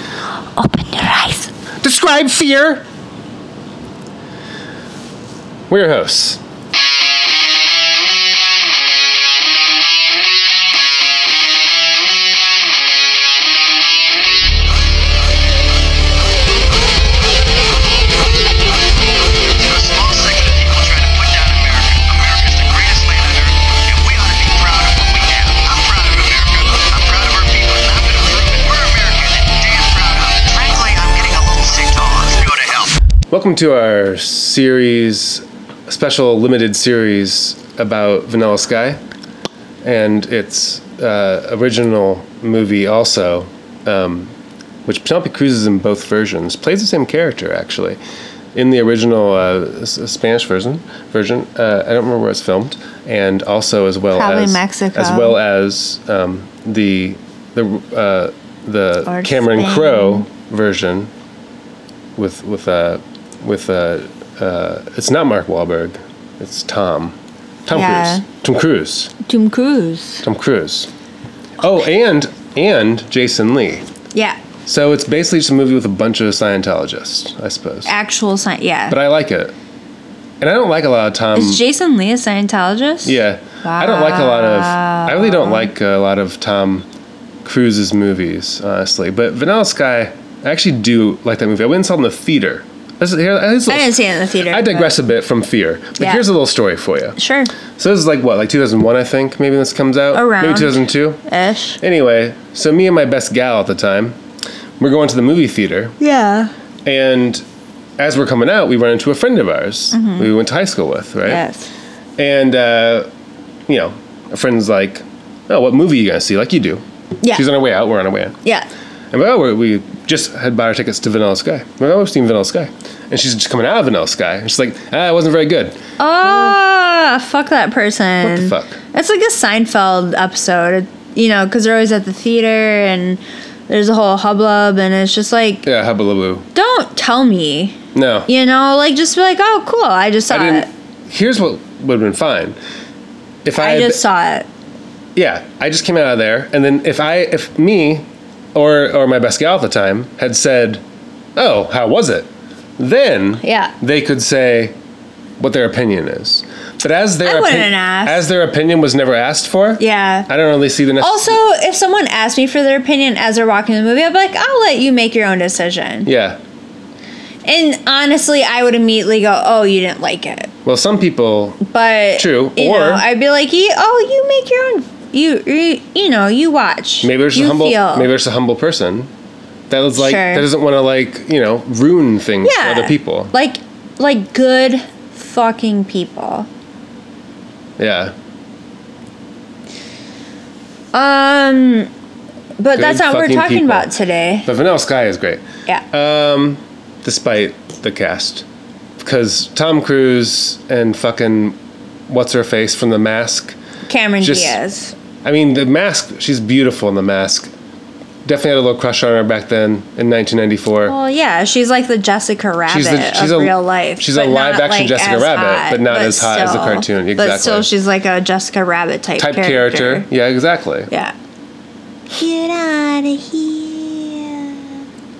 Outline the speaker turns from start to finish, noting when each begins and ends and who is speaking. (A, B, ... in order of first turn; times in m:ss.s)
0:00.6-0:01.5 A
0:01.8-0:02.8 B
0:05.7-0:06.4 B
0:19.5-0:33.0 C
0:33.3-0:39.0 B
0:39.8-0:44.3 B
0:44.8-0:48.0 B
0:48.5-1:01.1 B
0:54.1-0:55.4 A
0:59.0-1:00.3 A
1:02.2-1:09.1 B
1:07.7-1:08.2 A
1:09.3-1:10.2 A
1:10.2-1:10.9 B
1:11.6-1:13.8 B
1:14.7-1:17.9 B
1:17.8-1:19.0 A
1:18.9-1:19.5 B
1:20.4-1:21.6 B
1:21.3-1:25.7 A
1:23.0-1:26.9 B
1:27.4-1:37.2 B
1:33.7-1:35.0 A
1:36.0-1:36.2 A
1:37.2-1:37.5 A
1:37.8-1:41.2 B
1:40.1-1:41.8 A
1:41.8-1:44.2 B
1:44.8-1:46.0 B
1:46.0-1:46.5 A
1:46.8-1:47.4 B
1:48.0-1:51.4 B
1:49.9-1:50.3 A
1:51.3-1:51.7 A
1:52.2-1:53.1 B
1:53.7-1:58.4 B
1:57.2-1:57.5 A
1:59.1-2:05.8 B
2:06.0-2:15.6 A
2:08.2-2:08.8 B
2:15.6-2:16.5 B
2:16.6-2:20.7 A
2:17.9-2:18.3 B
2:20.3-2:22.6 B
2:23.4-2:24.0 B
2:23.6-2:24.5 A
2:25.2-2:30.8 B
2:31.4-2:34.8 B
2:33.4-2:33.7 A
2:35.4-2:41.4 B
2:37.2-2:38.2 A
2:39.8-2:40.3 A
2:41.0-2:46.1 A
2:46.0-2:46.4 B
2:47.4-2:50.5 A
2:50.6-2:51.6 B
2:51.6-2:58.1 A
2:52.2-2:53.0 B
2:57.0-2:59.1 B
2:59.7-3:03.3 B
3:00.0-3:00.5 A
3:02.4-3:06.5 A
3:07.8-3:08.1 B
3:10.9-3:11.9 A
3:12.6-3:14.5 A
3:12.7-3:13.9 B
3:14.4-3:18.5 B
3:19.0-3:21.6 B
3:22.1-3:23.6 B
3:23.9-3:24.9 A
3:24.2-3:24.6 B
3:25.2-3:27.5 B
3:28.2-3:30.9 B
3:30.9-3:40.1 A
3:32.7-3:37.7 B
3:39.2-3:40.9 B
3:40.9-3:41.2 A
3:42.1-3:44.7 A